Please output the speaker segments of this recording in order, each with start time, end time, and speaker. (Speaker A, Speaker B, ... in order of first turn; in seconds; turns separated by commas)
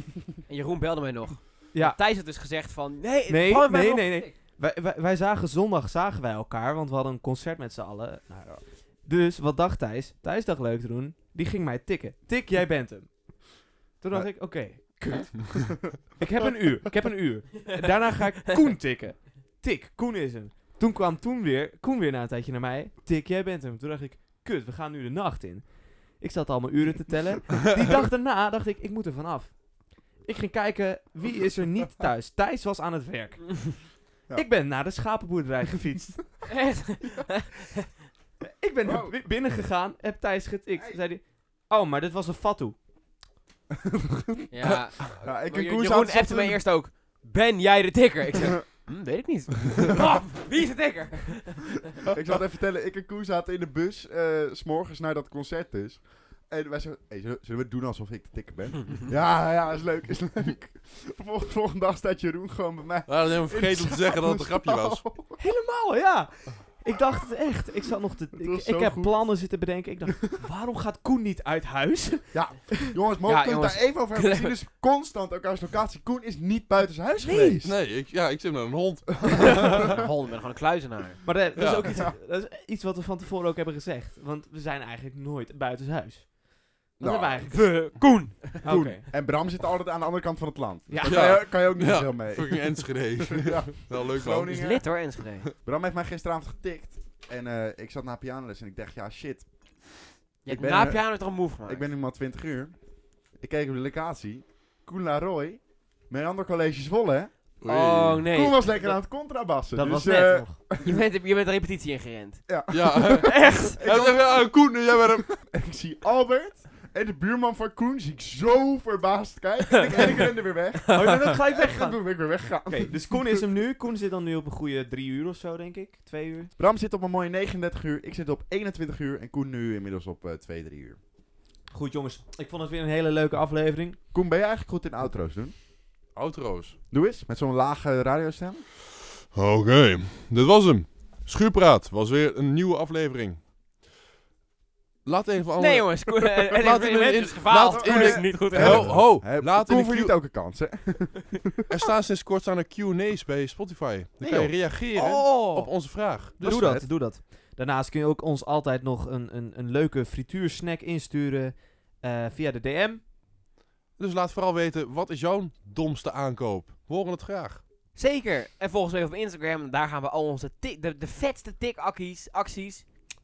Speaker A: 0.4-4.3, Speaker B: 3.3-13.5, Speaker B: 14.0-36.2, Speaker A: 36.5-37.9, Speaker B: 38.6-42.8, Speaker C: 38.8-39.2, Speaker C: 43.8-46.6, Speaker A: 44.5-51.9, Speaker C: 52.1-65.4, Speaker D: 63.1-65.0, Speaker B: 65.4-72.8, Speaker C: 68.3-69.2, Speaker C: 72.3-77.8, Speaker A: 73.2-74.6, Speaker B: 77.2-77.6, Speaker D: 77.6-80.0, Speaker A: 79.7-81.2, Speaker B: 81.2-87.7, Speaker D: 81.6-82.0, Speaker C: 81.8-82.2, Speaker C: 87.0-87.4, Speaker A: 87.4-88.9, Speaker B: 88.6-89.0, Speaker C: 88.6-95.1, Speaker B: 90.9-91.4, Speaker D: 91.0-94.7, Speaker A: 94.5-95.5, Speaker C: 95.6-99.5, Speaker A: 100.5-101.9, Speaker C: 100.5-102.8, Speaker C: 103.3-107.3, Speaker D: 107.6-108.2, Speaker A: 107.6-109.0, Speaker C: 108.3-111.0, Speaker B: 109.8-110.6, Speaker A: 110.8-112.4, Speaker C: 112.5-114.7, Speaker D: 112.7-115.3, Speaker B: 113.2-113.8, Speaker C: 115.3-123.5, Speaker A: 119.7-120.2, Speaker A: 120.9-121.3, Speaker B: 120.9-122.0, Speaker B: 122.7-126.5, Speaker C: 126.6-131.0, Speaker B: 131.7-134.0, Speaker C: 134.1-135.6, Speaker D: 136.2-136.8, Speaker C: 136.9-138.7, Speaker D: 139.3-143.4, Speaker D: 145.1-150.2, Speaker A: 145.6-149.0, Speaker C: 147.7-151.7, Speaker D: 151.7-156.7, Speaker C: 154.2-154.6, Speaker A: 154.9-155.7, Speaker B: 156.4-163.0, Speaker C: 156.4-156.9, Speaker D: 164.0-167.6, Speaker A: 168.0-172.9